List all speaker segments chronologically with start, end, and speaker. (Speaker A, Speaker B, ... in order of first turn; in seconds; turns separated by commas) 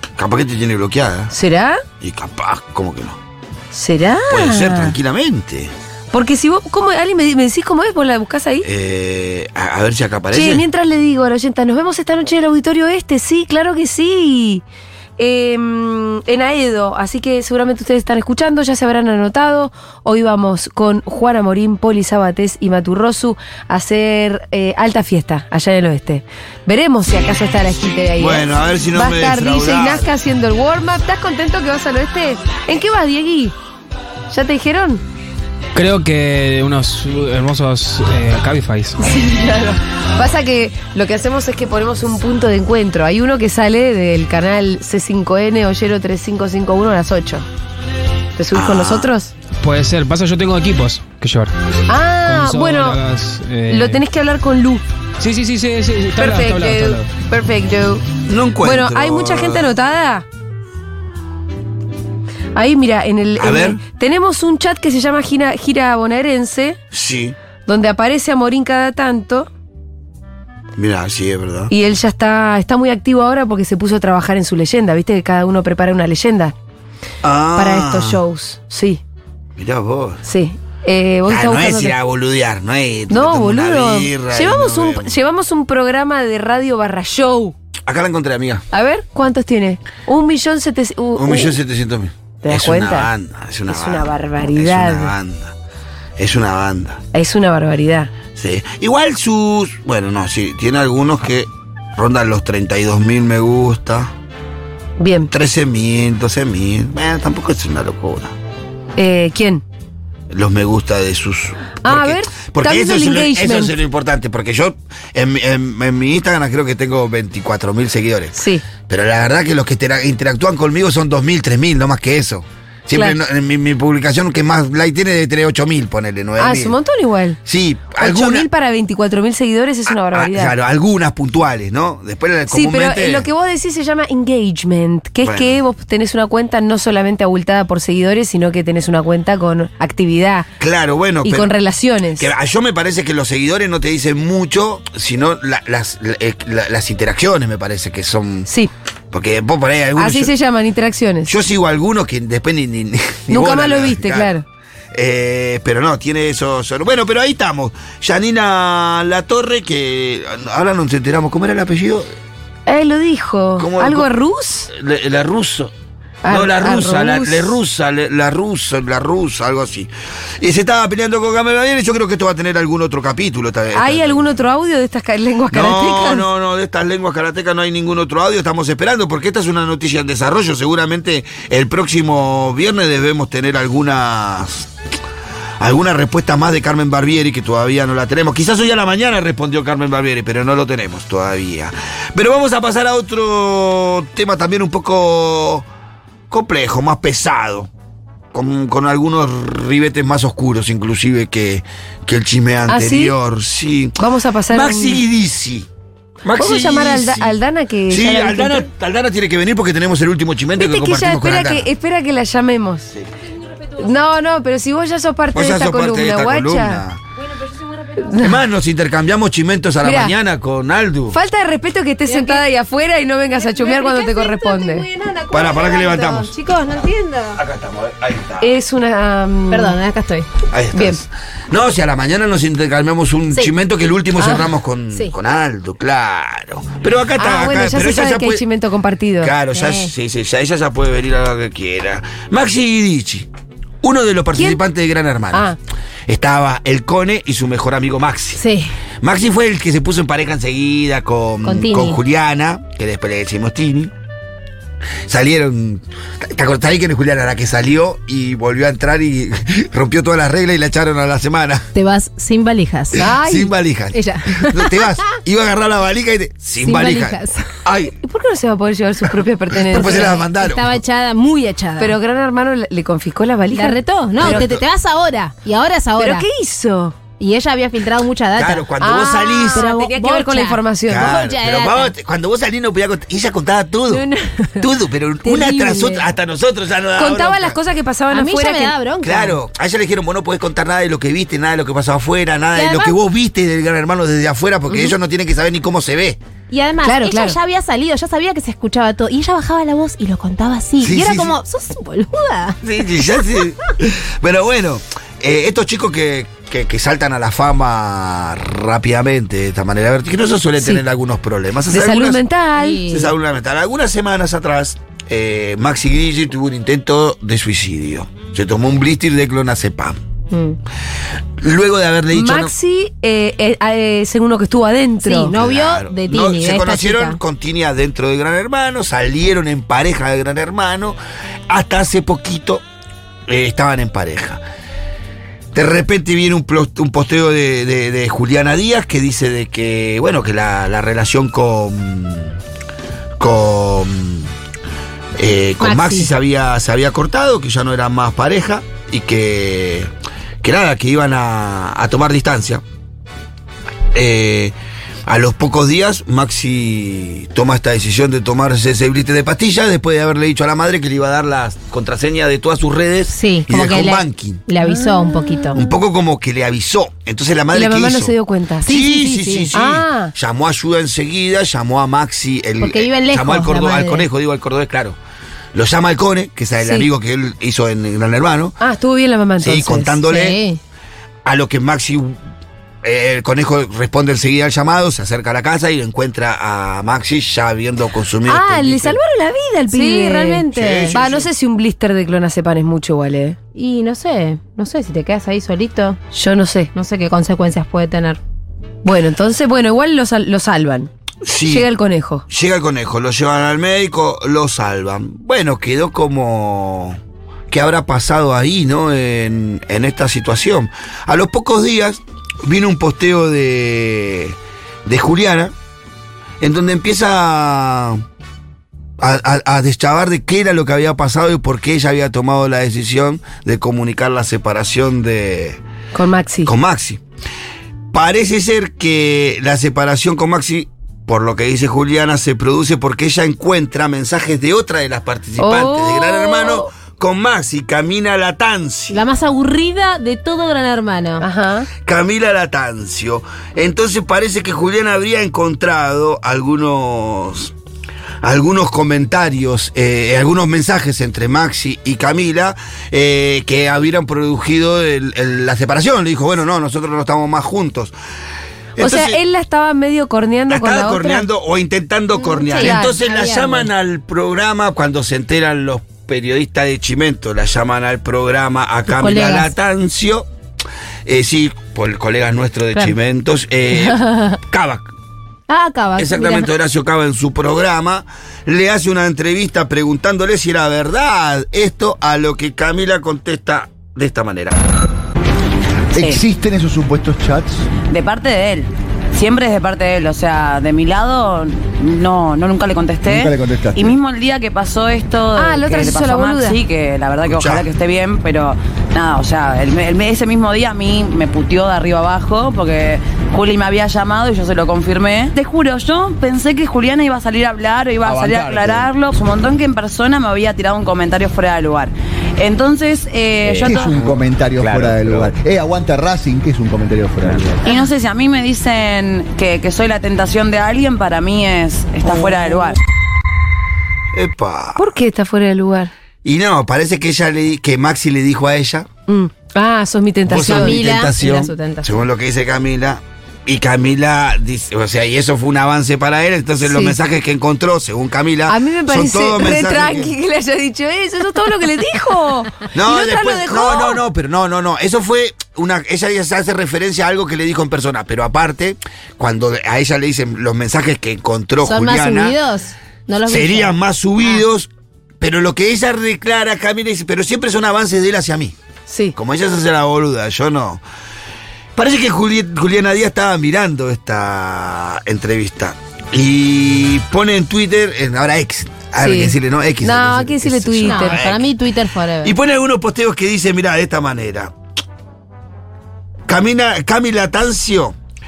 Speaker A: 0.2-1.3, Speaker B: 1.3-1.8, Speaker A: 2.0-3.2, Speaker B: 3.7-4.9, Speaker A: 4.3-5.7, Speaker B: 6.1-8.7, Speaker A: 8.6-10.6, Speaker B: 10.3-14.6, Speaker B: 15.2-33.5, Speaker A: 28.2-30.1, Speaker B: 34.3-35.0, Speaker C: 35.7-39.0, Speaker B: 39.0-47.4, Speaker B: 48.4-49.3, Speaker A: 48.5-49.1, Speaker C: 49.6-51.5, Speaker B: 51.9-53.0, Speaker C: 52.2-54.0, Speaker B: 53.7-54.8, Speaker C: 55.2-57.1, Speaker B: 56.2-58.0, Speaker A: 58.3-59.7, Speaker B: 58.6-60.2, Speaker B: 62.5-66.8, Speaker A: 63.4-63.8, Speaker A: 66.9-67.3, Speaker B: 67.7-69.5, Speaker A: 70.8-71.7, Speaker B: 71.7-76.5, Speaker A: 77.2-78.2, Speaker B: 77.5-79.0, Speaker A: 79.5-80.2, Speaker B: 80.2-82.0, Speaker A: 81.3-85.1, Speaker B: 83.1-87.5, Speaker A: 87.8-88.6, Speaker B: 88.7-91.5, Speaker A: 91.2-95.5, Speaker B: 92.4-93.1, Speaker B: 93.7-95.1, Speaker A: 96.2-97.0, Speaker B: 97.1-98.1, Speaker A: 98.3-104.1, Speaker B: 105.0-105.3, Speaker A: 105.3-108.3, Speaker B: 109.0-109.6, Speaker A: 110.3-126.8, Speaker B: 111.8-113.8, Speaker B: 118.3-118.6, Speaker B: 122.9-123.2, Speaker B: 126.4-127.4, Speaker A: 127.5-128.5, Speaker B: 128.0-130.5, Speaker A: 130.1-133.3, Speaker B: 132.5-140.5, Speaker A: 135.2-135.6, Speaker A: 140.6-141.5, Speaker B: 141.2-142.3, Speaker A: 142.2-148.5, Speaker A: 149.1-150.3, Speaker B: 149.9-151.3, Speaker A: 151.3-154.3, Speaker B: 153.3-154.4, Speaker A: 154.9-162.1, Speaker B: 162.7-164.7, Speaker A: 163.6-164.1, Speaker A: 164.7-165.7, Speaker B: 166.2-167.5, Speaker A: 166.3-174.3, Speaker B: 173.7-176.2, Speaker A: 175.5-184.7, Speaker A: 185.6-195.7, Speaker A: 196.3-197.7, Speaker A: 198.3-204.0, Speaker B: 202.7-203.2, Speaker B: 204.0-205.0, Speaker A: 204.5-205.7, Speaker A: 206.2-207.4, Speaker B: 206.4-208.7, Speaker A: 207.9-211.7, Speaker B: 210.6-212.9, Speaker B: 213.7-216.8, Speaker A: 215.3-217.0, Speaker D: 217.4-218.1, Speaker B: 218.0-218.4, Speaker A: 218.2-221.2, Speaker B: 219.8-220.1, Speaker B: 221.1-224.9, Speaker D: 222.1-222.4, Speaker D: 223.3-227.4, Speaker A: 225.3-226.3, Speaker A: 227.3-228.5, Speaker B: 228.4-229.8, Speaker D: 229.5-230.3, Speaker A: 230.5-238.4, Speaker B: 230.7-231.0, Speaker B: 234.2-234.5, Speaker B: 237.2-239.3, Speaker A: 239.2-243.3, Speaker D: 239.5-239.9, Speaker A: 243.8-245.5, Speaker B: 245.3-245.6, Speaker A: 246.1-248.4, Speaker D: 248.3-248.7, Speaker A: 249.0-253.9, Speaker D: 251.4-252.0, Speaker A: 255.1-261.7, Speaker D: 261.7-263.1, Speaker B: 263.0-263.5, Speaker A: 263.0-267.9, Speaker D: 263.9-265.2, Speaker D: 266.6-267.6, Speaker B: 267.9-270.2, Speaker A: 269.7-270.8, Speaker D: 269.7-271.9, Speaker B: 271.8-274.5, Speaker D: 273.5-276.2, Speaker A: 274.2-274.6, Speaker B: 276.0-276.9, Speaker D: 277.2-278.7, Speaker A: 278.3-279.7, Speaker B: 278.8-281.2, Speaker D: 279.5-281.9, Speaker A: 280.9-284.0, Speaker A: 284.6-287.6, Speaker D: 285.3-285.8, Speaker B: 285.3-285.9, Speaker B: 287.0-288.8, Speaker D: 288.1-289.4, Speaker A: 289.0-296.2, Speaker D: 292.5-292.9, Speaker D: 296.5-302.6, Speaker B: 296.8-297.4, Speaker A: 300.8-301.3, Speaker A: 302.6-312.2, Speaker B: 311.7-312.8, Speaker D: 312.6-313.1, Speaker A: 312.9-320.0, Speaker D: 320.3-320.6, Speaker A: 321.4-322.5, Speaker B: 322.1-325.3, Speaker D: 325.0-327.2, Speaker A: 325.3-331.0, Speaker A: 331.5-332.6, Speaker A: 333.3-334.4, Speaker A: 335.5-342.4, Speaker A: 343.2-344.3, Speaker A: 345.1-349.9, Speaker D: 345.6-346.1, Speaker A: 350.4-352.6, Speaker A: 353.9-354.5, Speaker A: 355.1-364.4, Speaker D: 363.1-365.6, Speaker A: 365.5-375.0, Speaker B: 367.5-368.7, Speaker D: 368.6-369.5, Speaker B: 369.5-370.1, Speaker D: 372.6-374.1, Speaker A: 375.5-378.6, Speaker B: 376.6-376.9, Speaker B: 378.6-380.0, Speaker A: 379.4-380.4, Speaker D: 380.1-380.6, Speaker A: 381.2-382.2, Speaker A: 382.8-389.0, Speaker B: 388.3-393.4, Speaker D: 389.7-390.9, Speaker A: 390.5-391.3, Speaker D: 393.5-396.0, Speaker B: 396.1-396.7, Speaker D: 396.7-398.2, Speaker B: 398.8-400.9, Speaker A: 401.2-401.7, Speaker B: 401.5-402.2, Speaker A: 402.3-407.0, Speaker A: 407.5-415.5, Speaker A: 416.4-418.0, Speaker A: 419.0-425.6, Speaker B: 425.9-426.5, Speaker A: 426.4-427.0, Speaker A: 427.9-439.0, Speaker B: 435.4-436.7, Speaker D: 438.9-441.2, Speaker B: 441.2-441.7, Speaker A: 441.8-447.5, Speaker A: 448.2-457.9, Speaker A: 458.8-459.2, Speaker B: 458.8-461.3, Speaker A: 460.5-470.3, Speaker D: 462.2-463.7, Speaker B: 462.4-463.0, Speaker D: 468.9-469.5, Speaker A: 471.1-474.9, Speaker D: 473.8-474.4, Speaker D: 475.5-476.5, Speaker A: 475.9-484.6, Speaker E: 485.9-487.7, Speaker F: 487.9-514.1, Speaker E: 493.0-494.0, Speaker B: 495.3-496.6, Speaker A: 497.2-497.6, Speaker E: 513.5-517.6, Speaker F: 517.6-522.8, Speaker A: 524.1-524.8, Speaker B: 524.8-525.9, Speaker A: 526.2-528.9, Speaker B: 529.1-530.8, Speaker A: 530.3-540.1, Speaker D: 530.4-531.9, Speaker B: 536.6-537.0, Speaker B: 538.5-544.0, Speaker A: 542.7-552.4, Speaker D: 551.6-554.4, Speaker A: 553.2-554.7, Speaker A: 555.2-558.5, Speaker B: 558.9-559.1, Speaker A: 559.1-560.8, Speaker A: 561.8-571.5, Speaker B: 569.0-571.2, Speaker D: 570.8-572.4, Speaker A: 572.2-574.5, Speaker A: 576.3-578.0